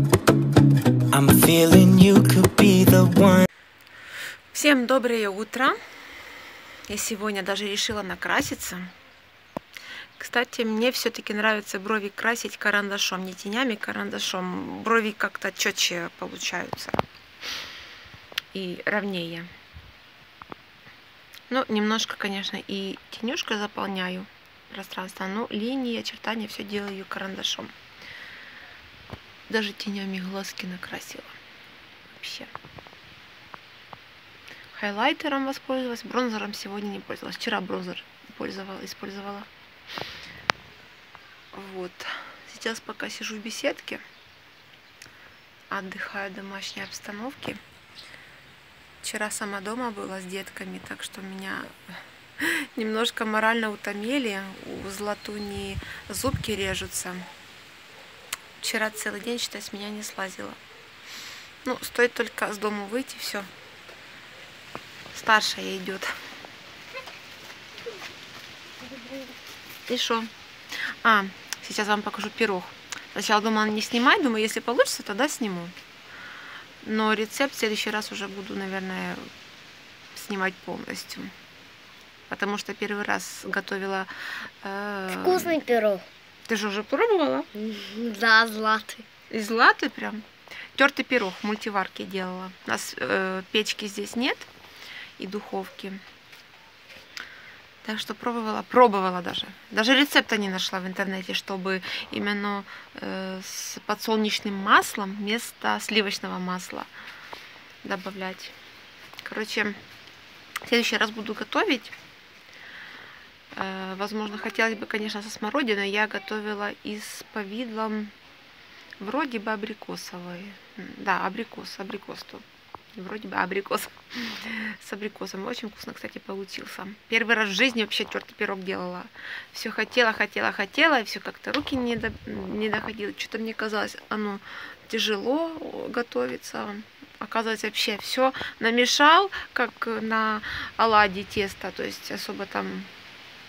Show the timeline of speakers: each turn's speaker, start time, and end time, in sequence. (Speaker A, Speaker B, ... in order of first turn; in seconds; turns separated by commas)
Speaker A: 1.1-3.4, Speaker B: 4.5-5.8, Speaker B: 6.9-8.9, Speaker B: 10.2-17.0, Speaker B: 18.5-19.5, Speaker B: 21.5-27.7, Speaker B: 29.5-31.4, Speaker B: 32.1-32.5, Speaker B: 34.7-39.5, Speaker B: 41.5-44.0, Speaker B: 45.7-47.6, Speaker B: 49.0-51.8, Speaker B: 52.4-57.3, Speaker B: 58.6-60.6, Speaker B: 61.6-63.5, Speaker B: 65.1-66.1, Speaker C: 68.9-69.2, Speaker B: 69.9-70.3, Speaker B: 71.0-75.7, Speaker B: 76.8-79.3, Speaker B: 80.1-81.3, Speaker B: 82.3-85.6, Speaker C: 85.1-86.0, Speaker B: 86.5-87.5, Speaker C: 87.5-89.1, Speaker B: 89.3-94.5, Speaker B: 95.2-96.0, Speaker B: 97.8-106.9, Speaker B: 107.8-108.5, Speaker B: 109.2-109.8, Speaker B: 110.6-111.9, Speaker B: 113.5-118.1, Speaker B: 119.0-142.9